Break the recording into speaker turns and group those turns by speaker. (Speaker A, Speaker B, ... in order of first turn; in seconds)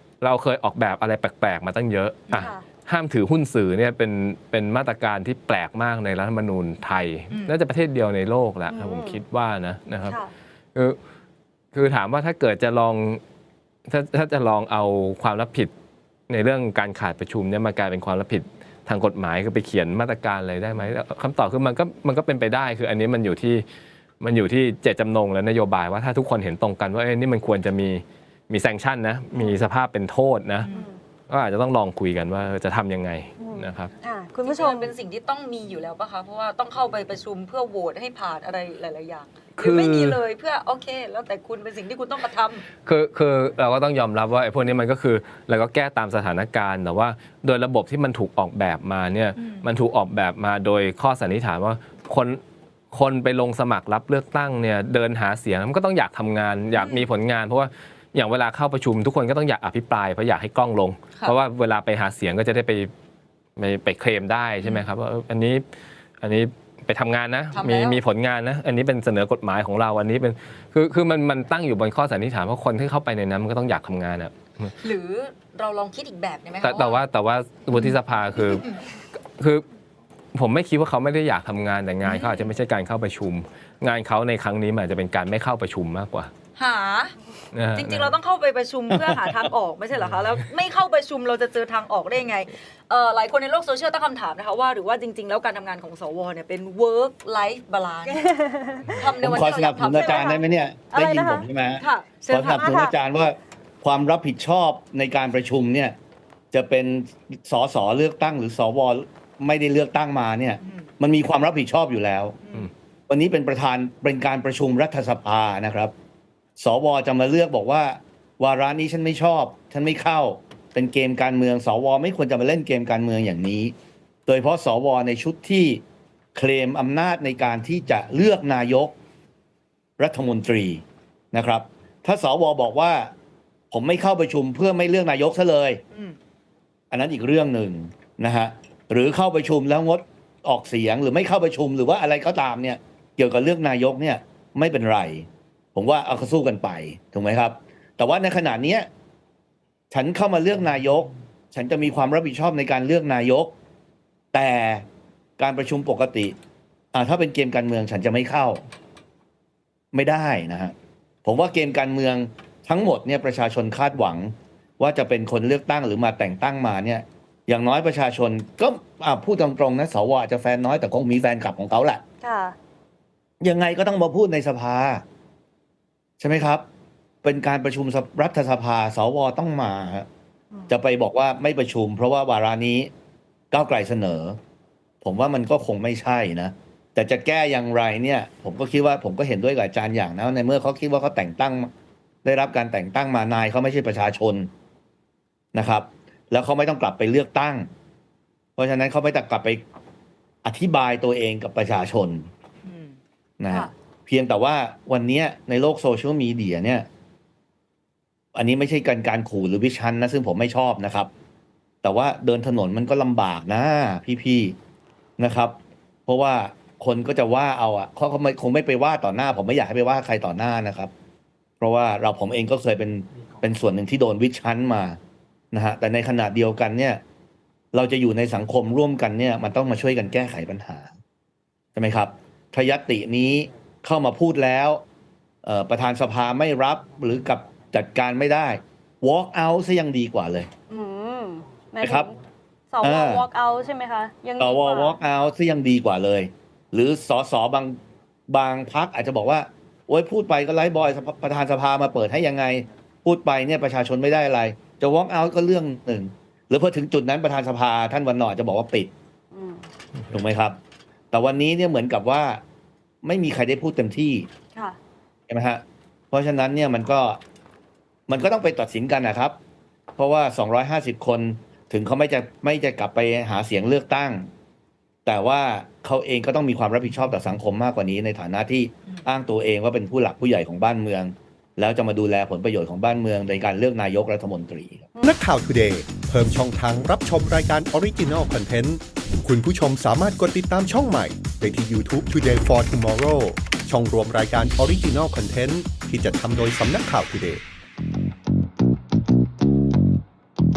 Speaker A: 0.2-10.2, 11.7-13.2, 13.9-15.7, 16.3-23.7, 24.2-30.7, 31.3-33.9, 39.6-40.2, 42.8-52.4, 52.9-62.9, 63.6-65.7, 66.2-74.8, 76.6-78.7, 79.4-79.6, 80.3-86.3, 87.5-88.2
Speaker B: 2.3-2.6, 8.7-9.2, 10.1-10.3, 30.7-31.0, 33.4-34.9, 98.1-99.0, 99.9-101.5, 102.5-102.9, 172.2-172.6, 240.7-242.2, 242.7-245.0, 259.3-259.6
Speaker C: 7.3-7.5, 30.6-30.9, 34.4-42.7, 49.4-49.7, 56.8-57.0, 67.5-68.0, 74.8-77.0, 82.0-82.5, 86.6-87.2, 87.7-98.2, 98.9-100.5, 101.8-102.7, 110.6-110.9, 112.4-112.7, 135.9-136.2, 202.6-203.0
Speaker D: 88.9-89.4, 99.2-106.0, 106.5-112.4, 113.1-115.9, 116.6-123.7, 124.3-125.8, 126.3-128.9, 130.0-133.1, 133.7-135.8, 136.9-148.9, 149.9-153.6, 154.3-154.9, 155.4-156.4, 156.9-158.7, 159.9-160.7, 161.2-172.0, 173.4-175.0, 176.2-176.7, 177.2-180.1, 180.7-182.9, 183.5-184.4, 185.0-191.7, 192.2-194.5, 195.5-197.7, 198.6-199.6, 200.4-202.3, 203.4-206.9, 208.3-211.1, 211.8-214.6, 215.2-220.9, 221.6-225.0, 225.5-227.0, 227.7-230.9, 231.8-234.8, 235.4-240.5, 241.8-242.1, 242.8-243.2, 244.4-258.9, 260.1-260.6, 261.1-262.4, 263.0-264.3, 265.3-267.2, 268.1-269.4, 270.0-274.3, 275.1-284.9
Speaker E: 285.0-297.4